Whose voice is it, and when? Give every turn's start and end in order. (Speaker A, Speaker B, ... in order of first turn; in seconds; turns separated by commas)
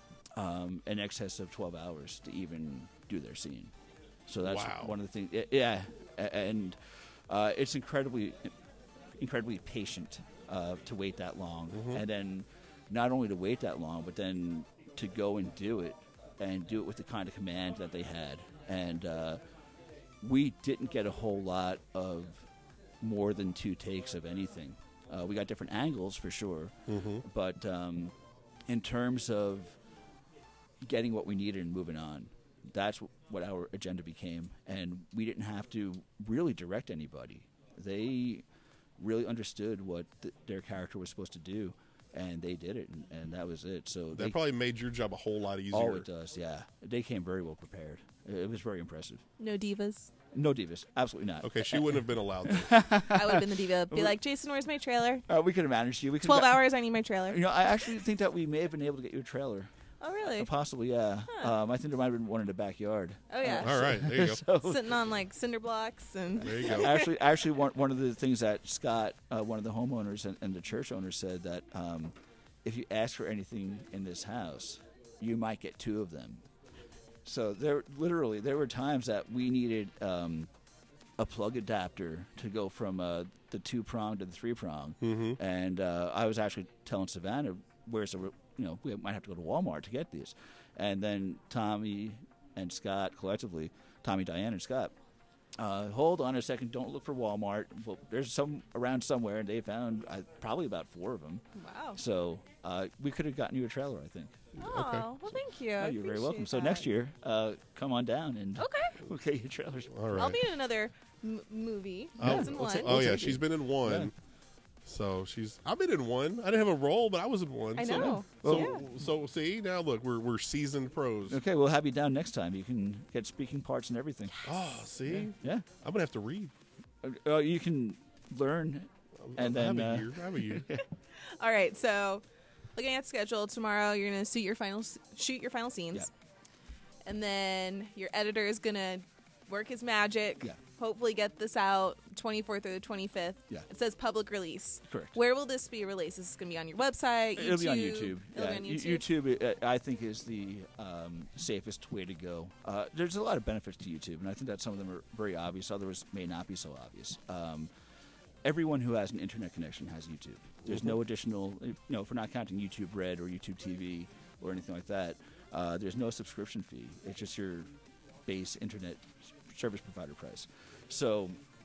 Speaker A: 0.3-3.7, Speaker A: 4.3-8.5, Speaker B: 4.4-5.0, Speaker A: 9.2-19.4, Speaker B: 11.7-12.0, Speaker A: 20.2-22.5, Speaker A: 23.0-28.1, Speaker B: 26.9-27.2, Speaker A: 28.7-29.8, Speaker A: 30.8-38.5, Speaker A: 39.0-44.4, Speaker B: 44.1-46.1, Speaker A: 45.7-49.2, Speaker C: 49.4-50.1, Speaker A: 50.3-54.1, Speaker B: 51.4-52.7, Speaker C: 53.1-55.2, Speaker A: 55.3-56.6, Speaker C: 56.2-57.4, Speaker A: 57.3-59.7, Speaker C: 60.0-60.5, Speaker A: 60.3-64.8, Speaker C: 63.3-63.7, Speaker B: 63.5-64.4, Speaker C: 64.6-67.1, Speaker B: 66.4-66.9, Speaker A: 66.7-76.5, Speaker A: 77.2-80.5, Speaker A: 81.2-94.9, Speaker B: 85.0-85.4, Speaker A: 95.6-101.4, Speaker C: 101.6-102.0, Speaker A: 102.0-104.4, Speaker B: 104.5-105.1, Speaker C: 104.6-106.9, Speaker A: 105.8-110.3, Speaker C: 108.6-109.0, Speaker B: 109.9-110.4, Speaker C: 110.2-112.9, Speaker B: 112.2-114.1, Speaker A: 112.2-114.1, Speaker B: 114.8-121.4, Speaker C: 117.8-118.8, Speaker A: 117.9-118.8, Speaker A: 121.3-124.4, Speaker B: 124.4-126.5, Speaker A: 125.1-125.7, Speaker A: 127.0-130.8, Speaker B: 129.2-130.6, Speaker C: 131.2-132.2, Speaker C: 132.8-136.1, Speaker C: 137.1-149.1, Speaker A: 144.9-145.2, Speaker A: 147.4-157.7, Speaker A: 158.4-167.7, Speaker B: 160.7-160.9, Speaker A: 168.3-171.4